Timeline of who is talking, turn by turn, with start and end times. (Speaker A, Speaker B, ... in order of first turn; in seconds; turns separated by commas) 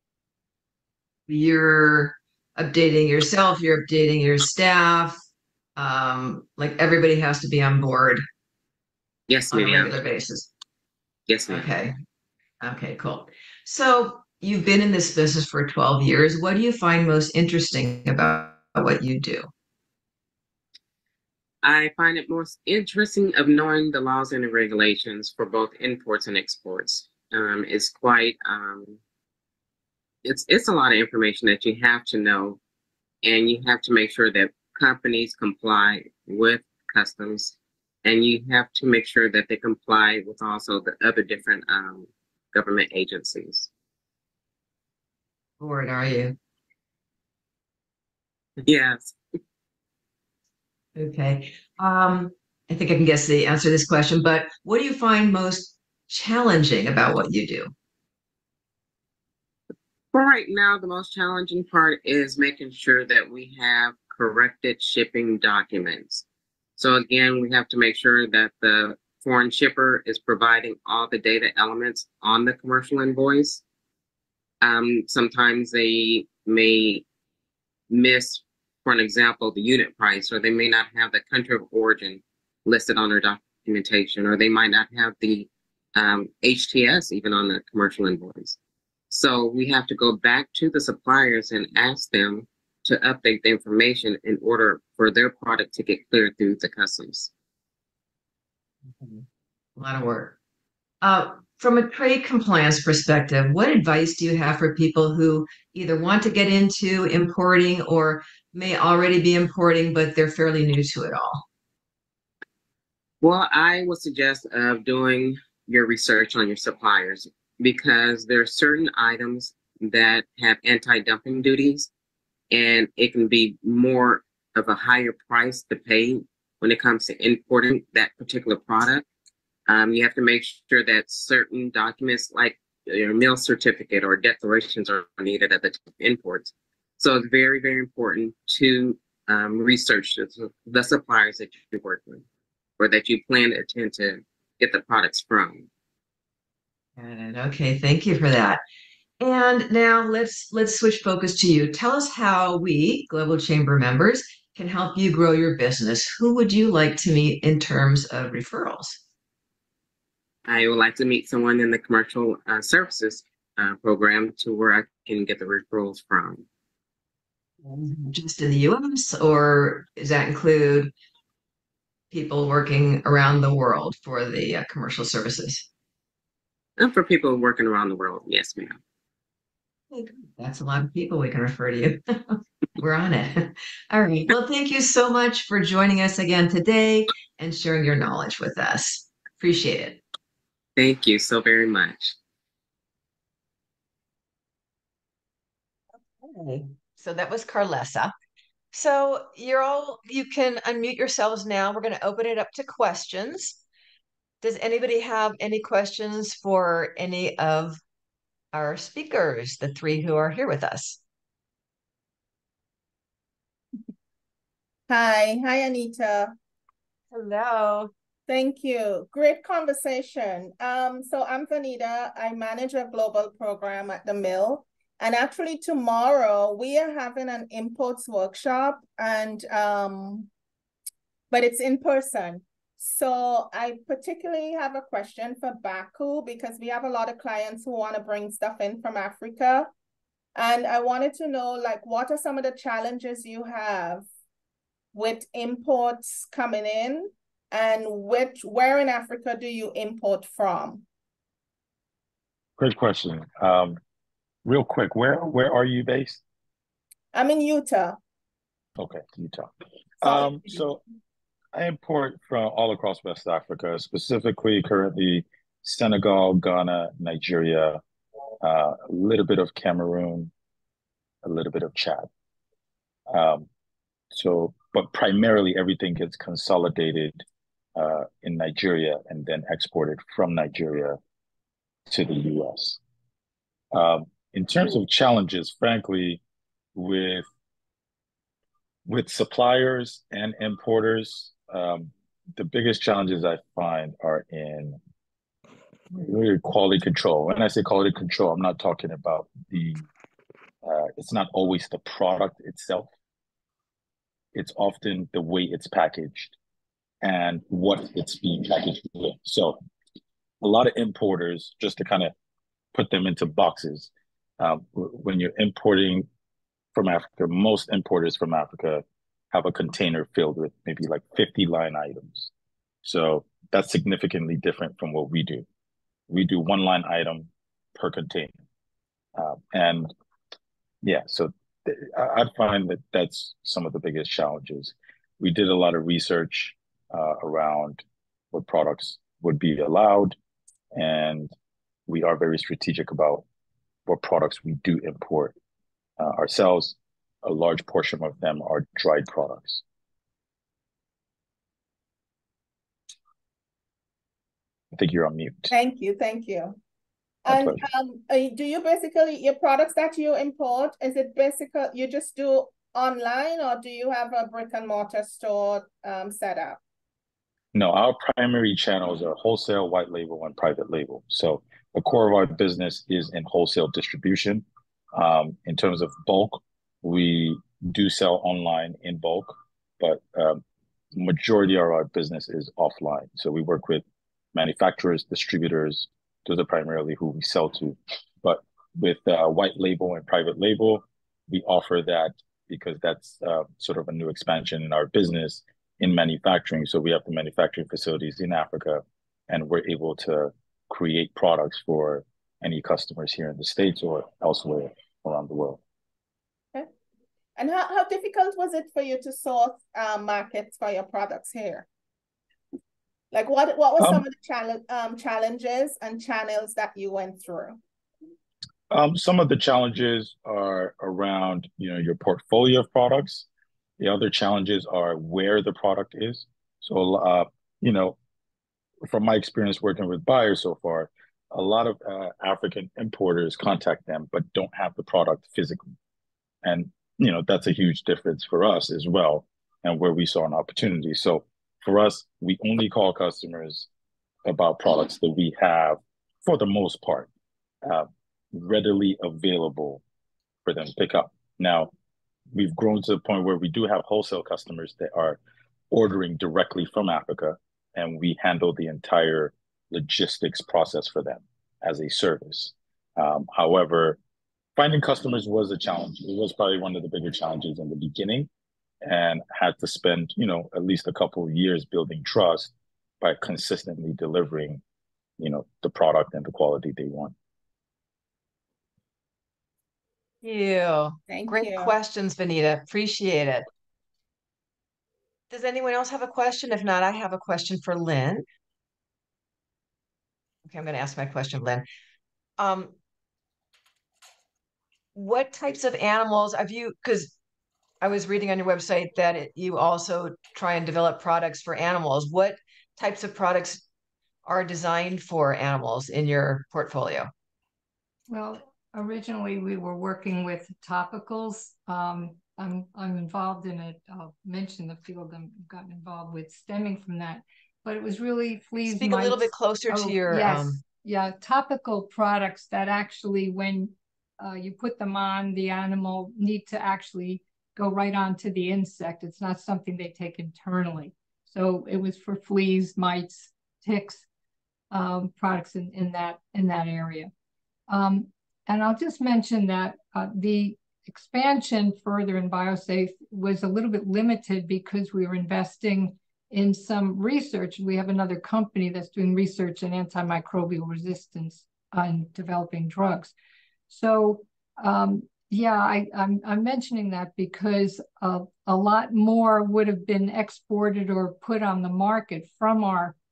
Speaker A: 1.3-5.2, Speaker A: 5.8-8.2, Speaker B: 9.3-9.9, Speaker A: 9.5-10.5, Speaker B: 11.3-11.7, Speaker A: 11.5-11.9, Speaker A: 12.6-19.5, Speaker B: 21.6-29.0, Speaker B: 30.2-32.6, Speaker B: 33.2-43.7, Speaker A: 45.6-46.4, Speaker B: 48.6-49.1, Speaker A: 51.0-57.7, Speaker B: 60.1-66.2, Speaker B: 66.8-73.6, Speaker B: 74.6-77.0, Speaker B: 77.9-88.6, Speaker B: 89.1-97.3, Speaker A: 98.9-99.2, Speaker A: 99.8-100.3, Speaker A: 101.0-111.4, Speaker B: 113.2-121.9, Speaker B: 122.5-129.0, Speaker B: 129.7-142.2, Speaker B: 142.8-145.7, Speaker A: 147.0-148.6, Speaker A: 149.2-159.0, Speaker B: 160.4-166.4, Speaker A: 167.6-170.9, Speaker A: 172.1-175.7, Speaker B: 176.8-178.8, Speaker A: 179.9-190.0, Speaker B: 190.8-192.1, Speaker A: 196.1-198.1, Speaker A: 198.7-203.6, Speaker A: 204.4-207.8, Speaker A: 208.5-211.0, Speaker C: 214.9-216.3, Speaker A: 217.1-217.9, Speaker C: 218.3-230.3, Speaker C: 231.3-239.7, Speaker C: 240.3-244.0, Speaker C: 244.9-250.8, Speaker D: 252.6-253.8, Speaker D: 254.4-256.2, Speaker C: 257.1-258.0, Speaker D: 258.8-260.8, Speaker C: 260.0-260.7, Speaker D: 261.5-267.8, Speaker D: 268.4-270.3, Speaker D: 271.2-272.1, Speaker D: 273.1-273.5, Speaker D: 274.1-277.2, Speaker D: 277.8-281.0, Speaker D: 281.9-282.8, Speaker D: 283.7-286.2, Speaker D: 286.7-287.2, Speaker D: 288.9-294.8, Speaker D: 295.9-299.8, Speaker D: 300.6-302.9, Speaker D: 304.3-306.3, Speaker D: 307.0-309.6, Speaker D: 310.4-312.1, Speaker D: 312.7-316.1, Speaker D: 316.7-322.3, Speaker D: 322.8-325.4, Speaker D: 326.1-328.3, Speaker D: 329.1-329.9, Speaker D: 330.8-340.1, Speaker D: 340.7-341.3, Speaker D: 341.9-343.2, Speaker D: 343.9-345.3, Speaker D: 346.0-349.6, Speaker D: 354.7-355.5, Speaker C: 355.5-356.6, Speaker C: 357.2-366.6, Speaker D: 357.3-357.6, Speaker D: 367.5-374.4, Speaker D: 374.9-380.4, Speaker D: 380.9-383.8, Speaker D: 384.3-405.6, Speaker C: 407.4-411.7, Speaker C: 413.1-417.6, Speaker D: 413.8-414.0, Speaker D: 418.7-423.2, Speaker D: 423.8-428.0, Speaker D: 428.9-435.6, Speaker D: 436.4-443.7, Speaker D: 444.2-447.1, Speaker D: 447.6-449.8, Speaker D: 450.4-451.7, Speaker D: 452.3-455.2, Speaker D: 455.7-464.0, Speaker D: 464.6-468.3, Speaker D: 468.8-474.6, Speaker D: 475.2-477.1, Speaker A: 480.2-483.5, Speaker C: 481.1-481.8, Speaker A: 485.3-488.2, Speaker A: 490.4-491.6, Speaker A: 492.4-492.7, Speaker A: 494.9-497.1, Speaker A: 497.8-503.6, Speaker A: 504.2-507.1, Speaker E: 508.1-534.0, Speaker A: 518.6-520.6, Speaker E: 534.7-537.1, Speaker E: 537.7-553.1, Speaker E: 553.7-562.9